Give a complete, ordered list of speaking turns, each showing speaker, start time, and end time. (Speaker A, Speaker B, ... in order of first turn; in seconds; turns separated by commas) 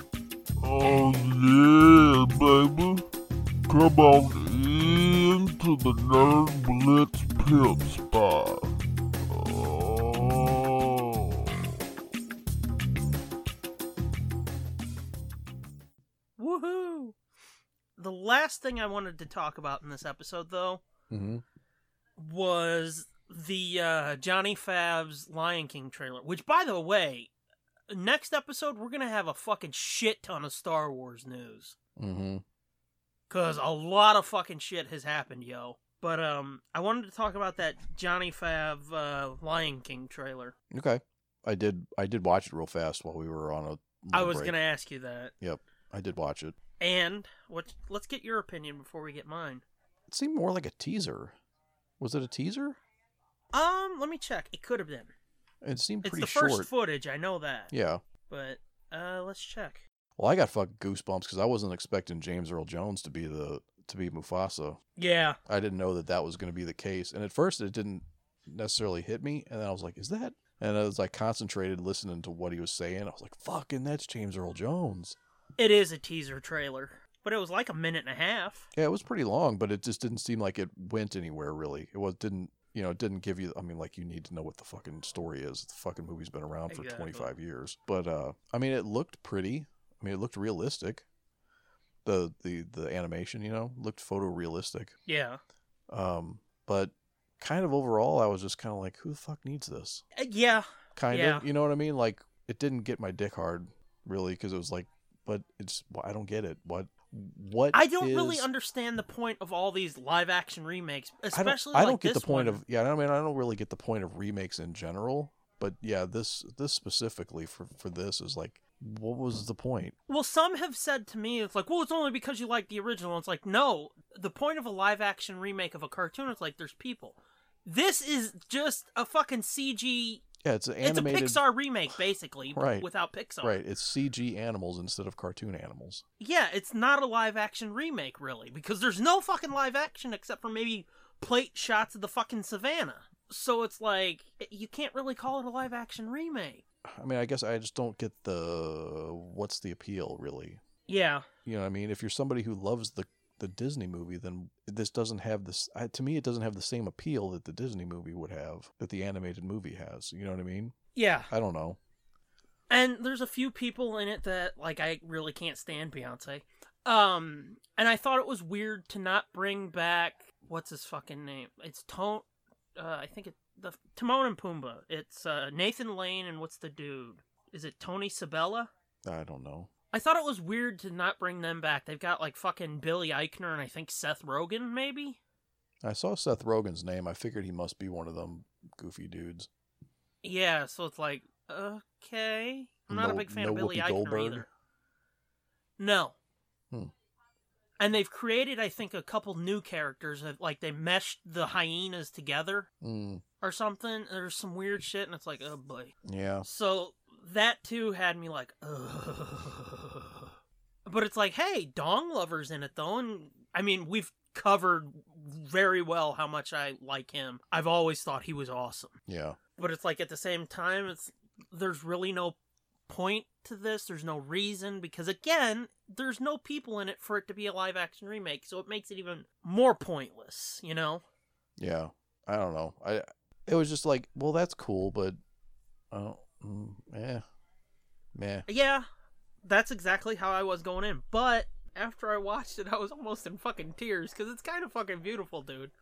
Speaker A: 0.6-3.0, Speaker A: 3.7-8.7, Speaker A: 9.3-11.7, Speaker B: 16.4-17.1, Speaker B: 18.0-20.8, Speaker C: 21.1-21.4, Speaker B: 22.2-27.3, Speaker B: 27.9-31.7, Speaker C: 32.0-32.4, Speaker B: 33.3-40.5, Speaker C: 40.7-44.5, Speaker B: 44.1-45.3, Speaker C: 45.4-46.6, Speaker B: 46.8-49.6, Speaker C: 50.1-51.4, Speaker C: 52.0-52.8, Speaker B: 53.5-55.1, Speaker C: 55.6-56.7, Speaker B: 56.0-57.7, Speaker C: 57.7-58.0, Speaker B: 58.3-59.8, Speaker C: 60.2-64.8, Speaker B: 65.0-65.4, Speaker C: 65.5-75.2, Speaker B: 75.6-78.7, Speaker C: 78.7-91.0, Speaker B: 86.7-87.3, Speaker C: 92.0-95.0, Speaker B: 95.1-95.4, Speaker C: 95.9-100.0, Speaker B: 100.2-101.5, Speaker C: 101.0-108.5, Speaker B: 107.7-112.6, Speaker C: 111.3-119.9, Speaker B: 120.1-130.2, Speaker C: 130.4-131.4, Speaker B: 130.8-133.6, Speaker C: 132.5-132.9, Speaker C: 133.4-136.0, Speaker B: 136.2-146.6, Speaker C: 146.8-150.6, Speaker B: 150.9-151.2, Speaker C: 151.4-160.8, Speaker B: 160.9-161.3, Speaker C: 161.3-161.8, Speaker B: 162.7-178.7, Speaker C: 179.0-179.7, Speaker B: 179.9-185.2, Speaker C: 185.8-189.5, Speaker B: 190.2-194.4, Speaker C: 192.9-194.5, Speaker B: 195.8-196.1, Speaker B: 197.8-202.7, Speaker C: 202.8-203.2, Speaker B: 203.4-210.2, Speaker C: 206.0-206.5, Speaker B: 210.8-218.9, Speaker C: 219.1-219.4, Speaker B: 219.6-222.3, Speaker B: 222.9-231.0, Speaker C: 231.6-235.2, Speaker C: 235.9-237.2, Speaker C: 238.1-238.4, Speaker B: 238.5-238.8, Speaker B: 239.4-245.7